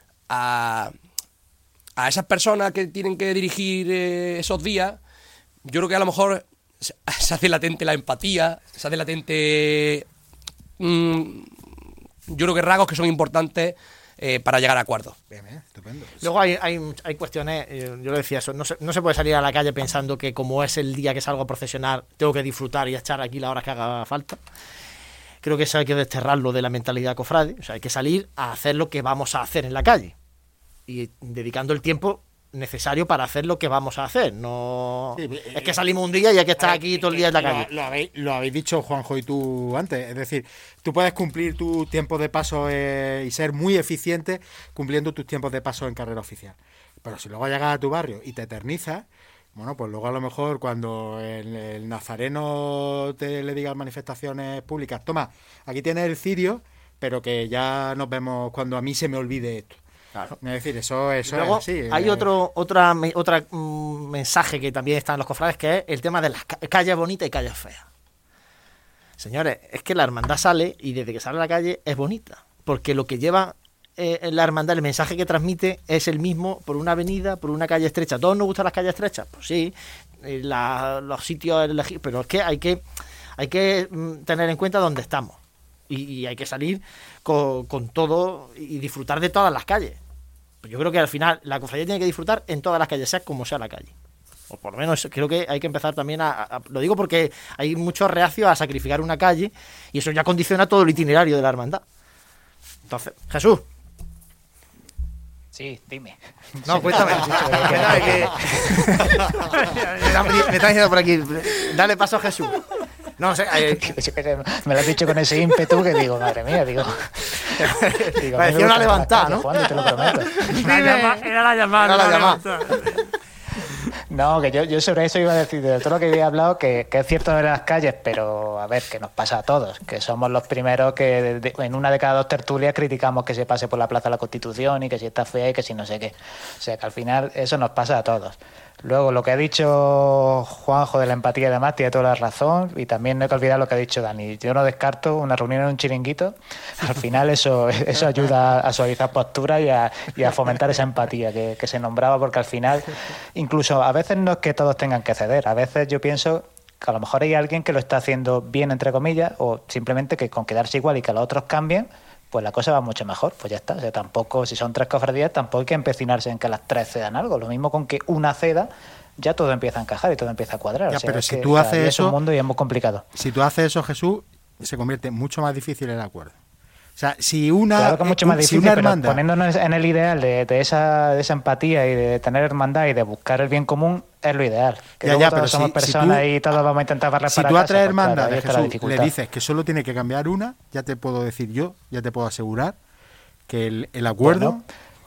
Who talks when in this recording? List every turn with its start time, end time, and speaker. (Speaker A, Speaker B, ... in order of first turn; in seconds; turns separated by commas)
Speaker A: 0.3-0.9, Speaker A: 2.0-5.0, Speaker A: 5.6-10.1, Speaker A: 10.8-11.7, Speaker A: 12.3-15.2, Speaker B: 15.3-16.3, Speaker C: 16.2-24.4, Speaker C: 25.4-30.1, Speaker C: 30.9-37.7, Speaker B: 35.1-35.8, Speaker B: 36.6-59.8, Speaker B: 60.4-62.3, Speaker C: 61.2-67.8, Speaker C: 69.2-82.8, Speaker C: 83.4-90.0, Speaker C: 90.6-93.9, Speaker C: 94.5-101.8, Speaker C: 102.9-103.6, Speaker D: 105.5-109.3, Speaker C: 106.7-112.6, Speaker C: 113.2-113.9, Speaker D: 113.7-117.6, Speaker C: 117.4-119.5, Speaker D: 118.2-120.5, Speaker C: 120.0-120.9, Speaker E: 120.5-123.1, Speaker C: 121.8-122.4, Speaker D: 124.1-173.0, Speaker B: 170.9-172.2, Speaker B: 173.1-176.3, Speaker B: 176.9-179.2, Speaker D: 177.8-189.1, Speaker B: 185.0-186.3, Speaker B: 187.3-192.8, Speaker B: 193.5-194.7, Speaker D: 194.2-194.6